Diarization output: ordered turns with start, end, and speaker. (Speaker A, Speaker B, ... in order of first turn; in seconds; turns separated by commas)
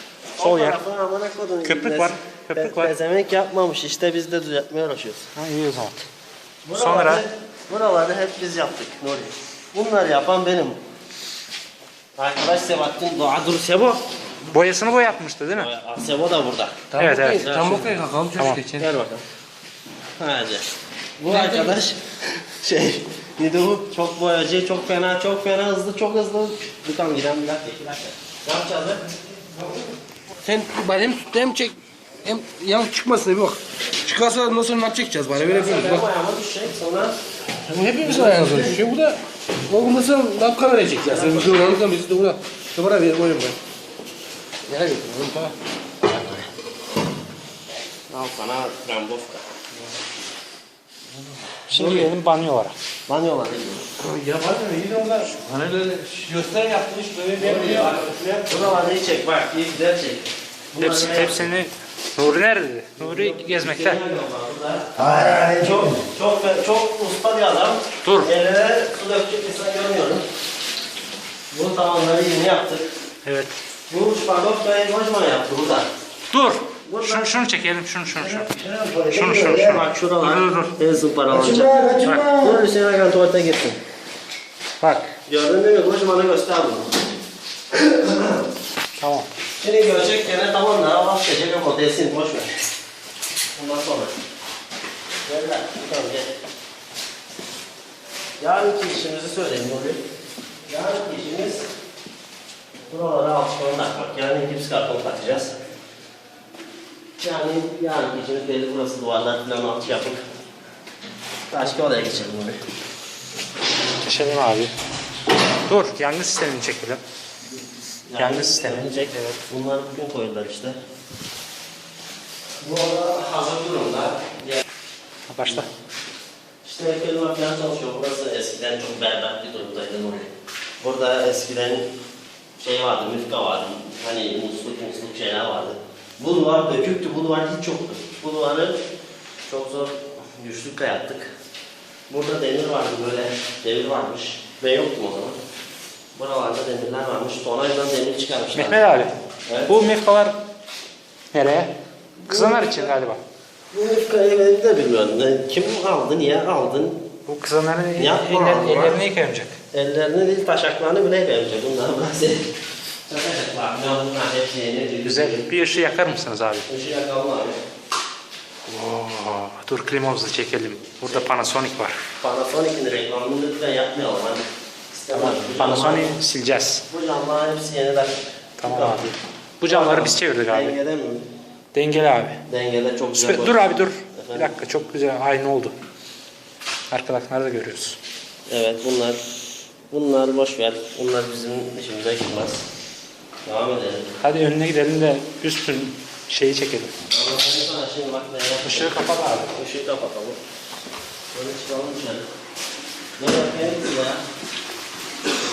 Speaker A: 0.4-0.8, Speaker B: 0.4-5.3, Speaker A: 1.6-2.9, Speaker A: 5.4-6.0, Speaker B: 6.7-10.8, Speaker A: 6.8-7.3, Speaker B: 12.2-14.0, Speaker A: 14.5-15.7, Speaker B: 15.5-17.9, Speaker C: 16.9-18.9, Speaker A: 17.0-17.5, Speaker A: 18.4-18.6, Speaker B: 18.8-19.2, Speaker B: 20.2-20.7, Speaker B: 21.2-29.0, Speaker C: 21.3-21.8, Speaker C: 30.4-36.1, Speaker B: 35.4-37.2, Speaker C: 37.7-43.6, Speaker B: 38.0-38.8, Speaker B: 41.1-41.6, Speaker C: 44.7-46.5, Speaker B: 48.1-49.4, Speaker B: 51.7-52.1, Speaker A: 51.7-52.8, Speaker B: 53.1-53.9, Speaker C: 54.0-58.5, Speaker B: 57.4-61.5, Speaker A: 60.8-64.0, Speaker B: 63.0-70.2, Speaker C: 65.1-65.9, Speaker A: 68.0-68.3, Speaker B: 71.5-72.9, Speaker A: 73.2-73.5, Speaker B: 73.9-75.9, Speaker A: 76.3-78.6, Speaker B: 76.8-77.3, Speaker B: 78.2-83.8, Speaker A: 79.1-80.8, Speaker C: 81.4-82.6, Speaker A: 82.0-82.4, Speaker A: 84.8-85.1, Speaker B: 85.3-87.0, Speaker B: 87.7-88.4, Speaker A: 89.0-89.3, Speaker B: 89.6-92.5, Speaker B: 93.6-94.2, Speaker B: 95.3-96.3, Speaker B: 98.4-100.0, Speaker B: 100.7-101.7, Speaker B: 102.9-105.6, Speaker B: 107.2-110.2, Speaker B: 111.5-112.6, Speaker A: 114.0-114.7, Speaker A: 115.7-117.0, Speaker B: 118.1-120.8, Speaker A: 118.2-119.4, Speaker B: 122.6-124.6, Speaker A: 125.3-125.7, Speaker B: 126.6-130.3, Speaker B: 130.8-131.9, Speaker B: 132.6-138.8, Speaker B: 139.5-141.3, Speaker B: 142.1-145.4, Speaker B: 146.2-148.9, Speaker A: 148.6-149.1, Speaker B: 149.5-149.8, Speaker A: 149.7-150.3, Speaker A: 151.3-151.7, Speaker B: 152.2-152.9, Speaker A: 152.3-153.2, Speaker B: 153.7-157.0, Speaker A: 157.3-159.6, Speaker B: 158.0-159.1, Speaker B: 159.7-162.4, Speaker B: 163.1-165.4, Speaker A: 165.0-166.7, Speaker B: 166.7-167.6, Speaker A: 168.7-172.0, Speaker B: 171.1-171.5, Speaker B: 172.2-176.2, Speaker A: 175.1-176.8, Speaker B: 176.9-179.1, Speaker A: 178.6-180.8, Speaker B: 179.7-181.3, Speaker A: 181.7-182.4, Speaker B: 182.5-183.6, Speaker A: 183.2-185.8, Speaker B: 184.1-184.6, Speaker A: 186.9-188.0, Speaker B: 188.5-189.2, Speaker B: 189.9-192.6, Speaker B: 193.5-194.1, Speaker A: 194.2-196.9, Speaker B: 197.1-200.4, Speaker A: 198.6-199.5, Speaker B: 201.3-202.3, Speaker B: 203.2-204.2